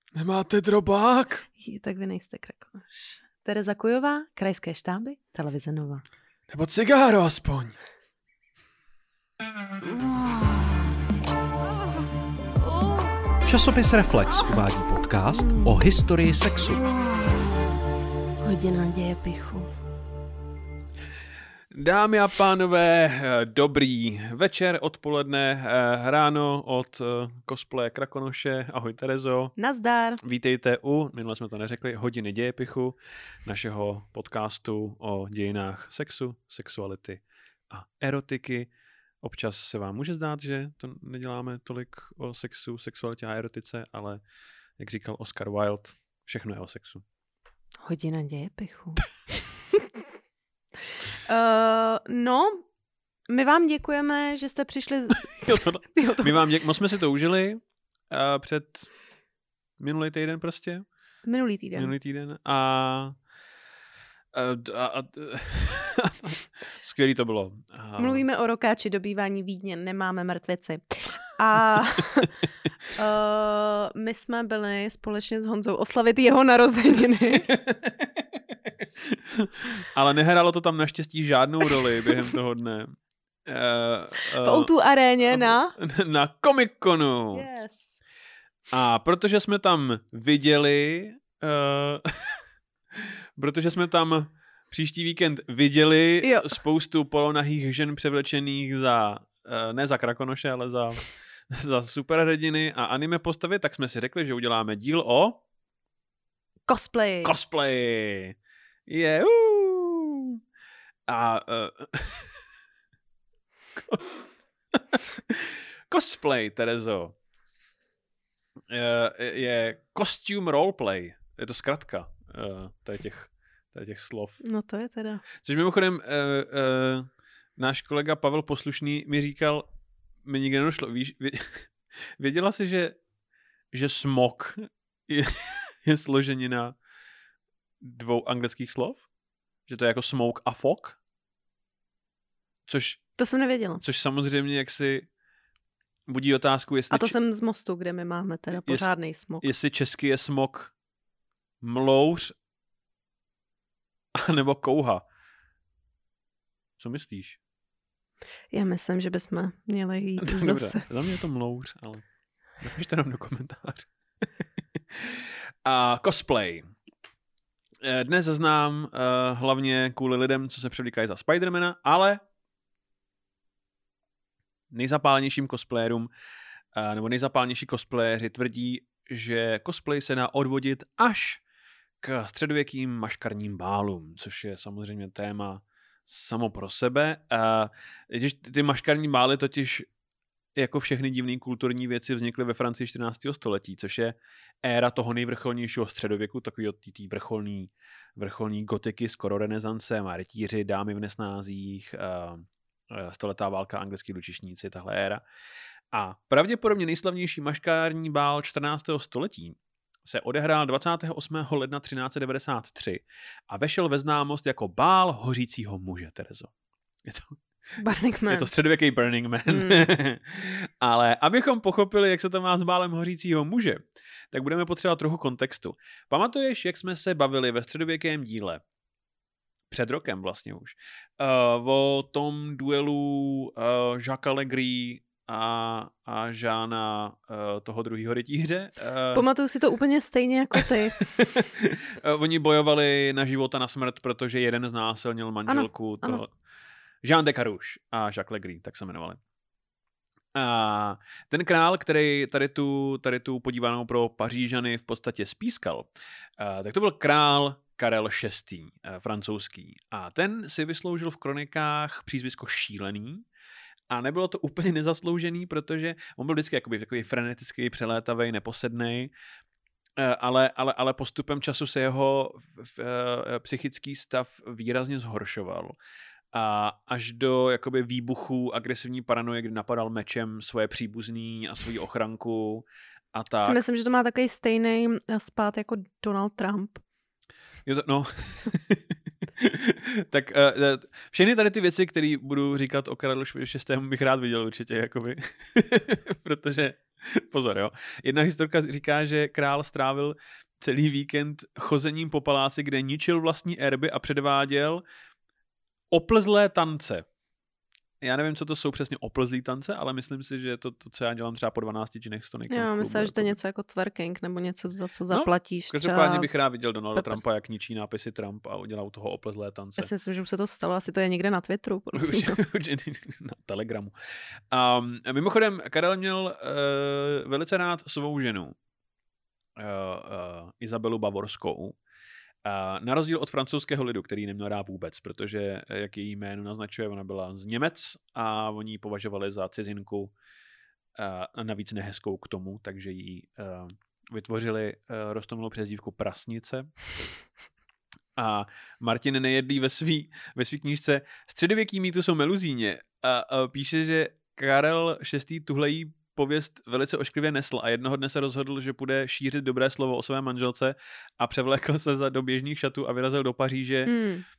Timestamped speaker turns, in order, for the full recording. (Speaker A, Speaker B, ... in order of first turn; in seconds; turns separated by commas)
Speaker A: 0.1-1.4, Speaker B: 1.6-6.0, Speaker A: 6.5-7.8, Speaker C: 13.4-16.9, Speaker B: 18.4-19.7, Speaker A: 21.7-29.5, Speaker B: 29.6-30.2, Speaker A: 30.2-38.7, Speaker A: 39.2-44.2, Speaker A: 44.8-47.0, Speaker B: 47.8-49.0, Speaker B: 51.2-52.6, Speaker B: 53.3-56.3, Speaker A: 55.4-58.9, Speaker A: 59.8-60.9, Speaker B: 61.2-61.9, Speaker A: 61.7-63.2, Speaker A: 64.3-68.2, Speaker B: 68.0-72.3, Speaker B: 72.9-77.5, Speaker A: 77.5-84.7, Speaker B: 84.3-85.7, Speaker A: 85.3-87.5, Speaker B: 87.3-88.0, Speaker A: 88.7-92.4, Speaker A: 92.9-105.4, Speaker B: 96.2-96.5, Speaker B: 106.7-107.3, Speaker A: 107.2-108.3, Speaker A: 108.9-110.4, Speaker A: 111.1-112.4, Speaker A: 113.8-114.2, Speaker A: 114.7-117.1, Speaker A: 118.7-124.4, Speaker B: 124.4-125.2, Speaker A: 125.4-129.7, Speaker A: 130.2-133.0, Speaker A: 133.7-136.8, Speaker A: 137.8-139.0, Speaker A: 139.7-141.0, Speaker A: 142.7-143.1, Speaker B: 143.2-143.8, Speaker A: 143.8-145.1, Speaker A: 146.1-147.1, Speaker B: 146.9-149.5, Speaker A: 148.6-150.7, Speaker A: 151.6-152.3, Speaker A: 154.1-155.0, Speaker A: 156.8-157.4, Speaker B: 158.5-160.9, Speaker A: 160.2-162.0, Speaker A: 162.6-163.9, Speaker A: 164.9-166.7, Speaker A: 167.8-172.2, Speaker A: 174.7-176.1, Speaker A: 176.7-181.4, Speaker A: 182.0-189.9, Speaker A: 190.6-205.2, Speaker A: 205.9-216.5, Speaker A: 217.0-217.4, Speaker B: 217.8-218.5, Speaker A: 218.3-228.6, Speaker B: 219.5-219.8, Speaker A: 229.7-239.2, Speaker B: 239.1-241.0, Speaker A: 240.6-246.3, Speaker B: 245.5-246.2, Speaker A: 247.0-249.2, Speaker A: 250.3-263.2, Speaker A: 263.9-269.1, Speaker A: 270.0-275.8, Speaker A: 276.3-283.6, Speaker B: 283.4-286.8, Speaker A: 287.6-304.8, Speaker A: 305.9-307.1, Speaker A: 308.0-313.3, Speaker B: 312.5-316.3, Speaker A: 315.1-319.9, Speaker B: 316.9-317.3, Speaker B: 319.8-322.4, Speaker A: 321.9-323.9, Speaker A: 324.5-328.6, Speaker A: 329.6-331.8, Speaker A: 332.4-340.1, Speaker A: 340.9-346.7, Speaker A: 348.1-363.9, Speaker B: 363.9-364.2